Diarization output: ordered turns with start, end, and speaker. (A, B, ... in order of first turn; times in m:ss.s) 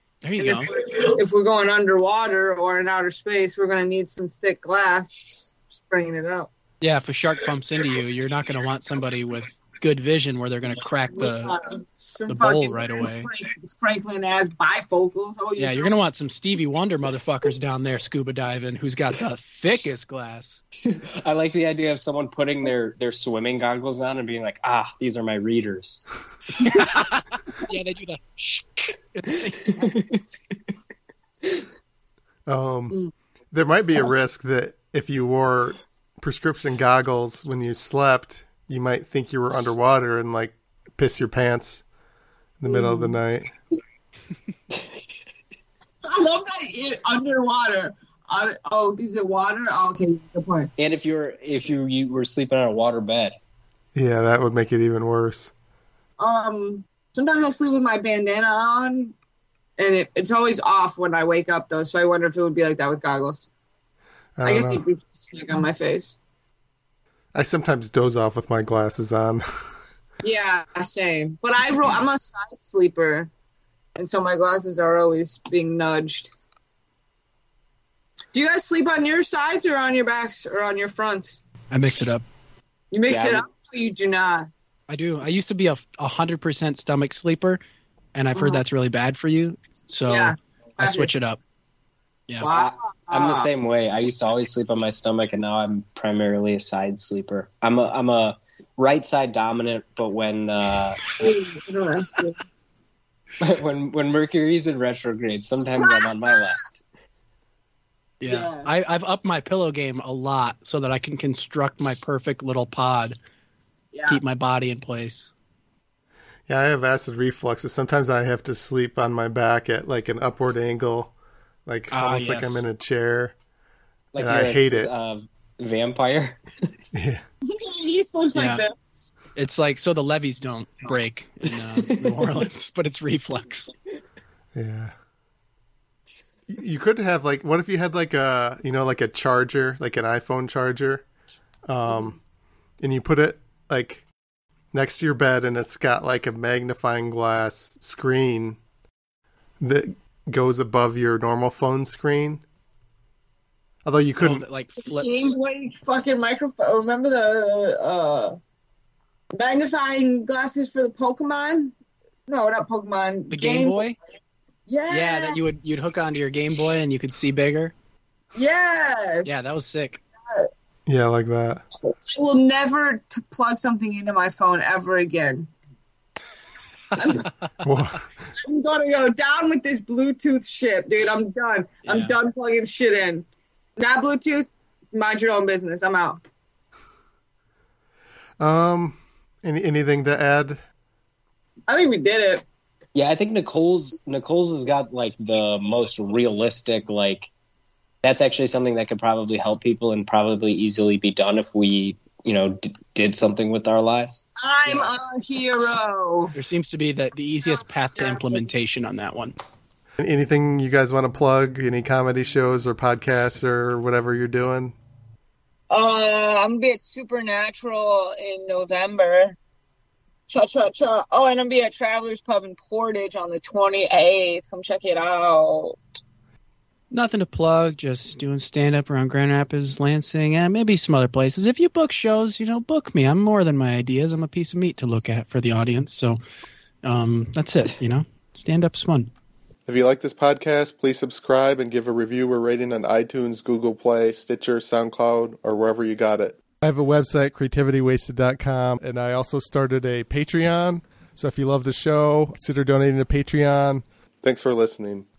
0:00.2-0:00.7 A
0:00.4-0:06.5 B
0:06.8-0:11.5 A
0:11.1-0:16.0 B
0:12.3-0:13.3 A
0:15.6-0:20.6 A
0:20.8-0:26.0 C
0:26.6-0:30.0 A
0:29.8-0:30.2 C
0:32.5-0:33.0 D
0:33.5-0:41.8 D
0:42.6-0:43.5 D
0:42.7-0:43.2 B
0:46.0-0:50.7 B
0:50.8-0:53.4 C
0:53.9-0:55.5 D
0:56.2-0:59.1 B
0:59.8-1:03.5 B
1:04.4-1:04.8 D
1:04.4-1:06.2 B
1:07.3-1:09.4 D
1:10.2-1:13.3 B
1:14.0-1:16.3 B
1:18.3-1:21.4 B
1:21.7-1:22.2 A
1:22.9-1:24.5 B
1:23.1-1:23.4 C
1:24.9-1:27.6 A
1:28.2-1:31.4 A
1:28.4-1:28.6 B
1:30.1-1:31.1 B
1:32.4-1:33.5 B
1:32.5-1:41.0 C
1:41.2-1:42.4 B
1:43.4-1:46.8 C
1:45.8-1:46.4 B
1:48.2-1:53.2 A
1:48.3-1:48.7 B
1:53.9-1:54.2 B
1:54.1-1:55.3 A
1:56.5-2:01.1 D
2:01.7-2:03.3 D
2:01.9-2:02.6 A
2:04.1-2:06.4 C
2:04.2-2:04.9 D
2:06.9-2:07.2 D
2:07.5-2:09.2 B
2:08.4-2:08.6 A
2:09.3-2:13.7 A
2:14.5-2:14.9 D
2:16.5-2:21.0 D
2:21.7-2:22.2 D
2:22.8-2:24.0 D
2:24.7-2:28.6 D
2:29.6-2:32.4 D
2:33.8-2:34.5 D
2:34.2-2:35.4 A
2:34.9-2:38.4 B
2:39.3-2:41.7 B
2:42.3-2:44.0 B
2:43.3-2:44.0 A
2:44.7-2:45.4 B
2:44.9-2:47.7 A
2:48.4-2:49.5 B
2:49.2-2:50.0 A
2:50.9-2:51.6 D
2:51.8-2:55.5 B
2:57.0-2:57.3 B
2:57.6-2:58.0 D
2:58.4-3:03.2 B
3:01.9-3:02.1 A
3:03.8-3:06.2 B
3:08.4-3:10.6 D
3:11.7-3:12.4 B
3:12.9-3:17.3 C
3:18.0-3:24.2 C
3:24.4-3:26.4 B
3:26.3-3:29.4 A
3:27.5-3:28.3 B
3:30.0-3:34.8 D
3:35.7-3:39.4 B
3:40.3-3:45.8 B
3:46.9-3:56.2 A
3:56.8-3:59.1 A
3:59.7-4:15.1 D